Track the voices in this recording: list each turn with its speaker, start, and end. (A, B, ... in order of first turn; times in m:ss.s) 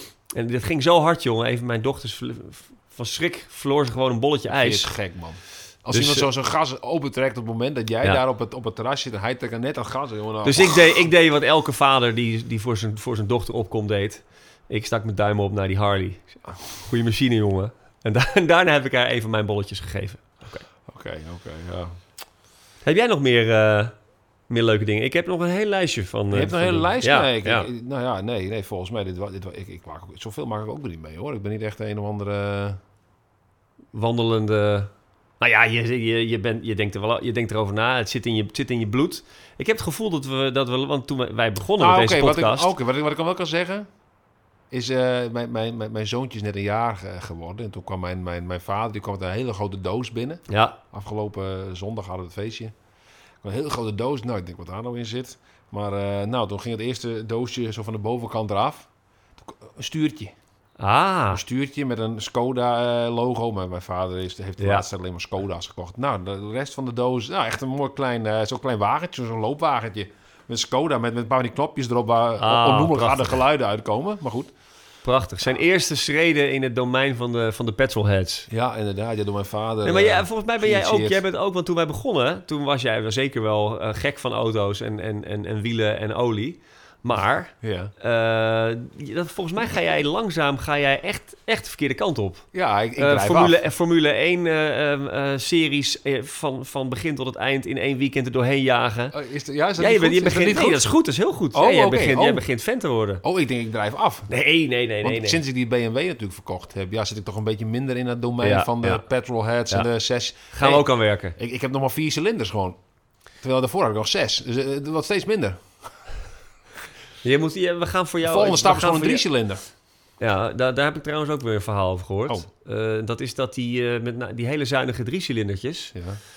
0:00.3-0:04.9 A
0:04.5-0:11.0 B
0:05.9-0:06.3 A
0:10.4-0:20.7 A
0:20.9-0:22.0 B
0:22.8-0:23.9 A
0:24.5-0:27.7 A
0:26.3-0:32.8 B
0:33.9-0:42.7 A
0:41.8-0:43.9 B
0:44.7-0:52.7 B
0:50.5-0:50.8 A
0:53.4-0:58.9 B
0:59.4-1:00.3 B
1:00.8-1:01.4 A
1:01.3-1:14.5 B
1:04.6-1:04.8 A
1:12.4-1:13.4 A
1:15.0-1:18.5 A
1:18.5-1:21.2 B
1:19.8-1:39.2 A
1:27.6-1:27.9 B
1:32.5-1:33.6 B
1:39.1-1:40.9 B
1:39.8-1:43.2 A
1:41.5-1:42.4 B
1:43.2-1:44.3 B
1:44.3-1:45.4 A
1:45.0-1:52.8 B
1:48.4-1:49.0 A
1:50.5-1:51.4 A
1:53.4-1:55.7 B
1:57.2-1:59.2 A
1:58.2-1:59.6 B
2:00.2-2:05.9 A